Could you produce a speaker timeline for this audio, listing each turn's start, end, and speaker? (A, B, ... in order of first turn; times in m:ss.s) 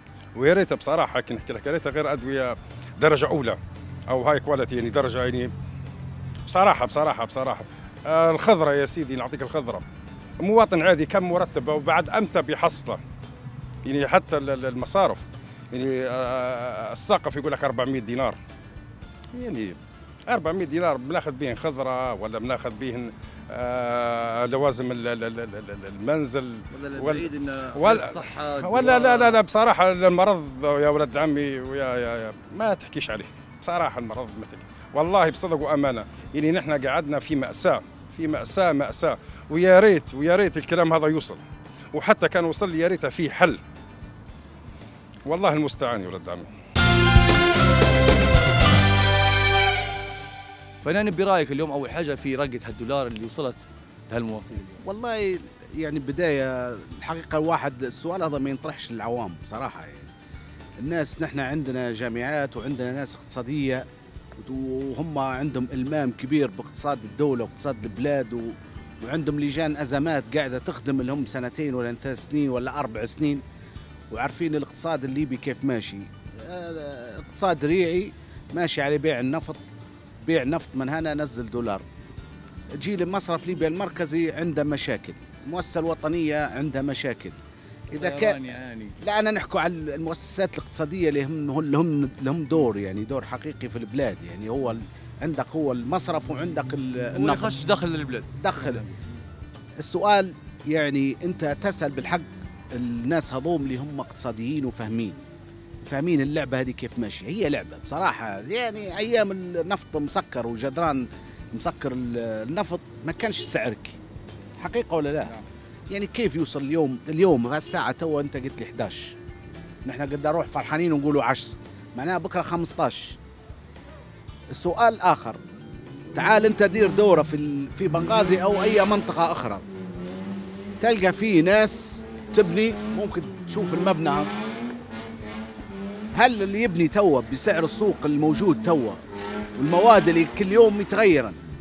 0:00.4-0:03.6 A
0:04.1-0:05.5 A
0:06.5-0:09.8 A
0:10.4-0:13.0 A
0:13.8-0:18.4 A
0:19.3-0:19.8 A
0:20.3-0:41.4 A
0:26.7-0:29.4 B
0:41.9-0:43.6 A
0:45.3-0:46.5 A
0:50.8-0:54.8 B
0:54.8-1:00.1 C
1:00.8-1:03.8 C
1:04.4-1:13.4 C
1:14.1-1:19.6 C
1:20.2-1:21.8 C
1:22.8-1:27.4 C
1:27.9-1:28.4 C
1:27.9-1:29.0 B
1:29.0-1:37.6 C
1:37.1-1:38.3 B
1:38.4-1:38.9 C
1:39.8-1:45.2 C
1:45.8-1:54.0 C
1:54.6-1:55.3 C
1:55.9-1:59.1 C
1:59.8-2:03.2 C
2:04.5-2:05.4 C
2:06.1-2:09.6 C
2:10.8-2:14.3 C
2:16.1-2:19.0 C
2:19.6-2:21.4 C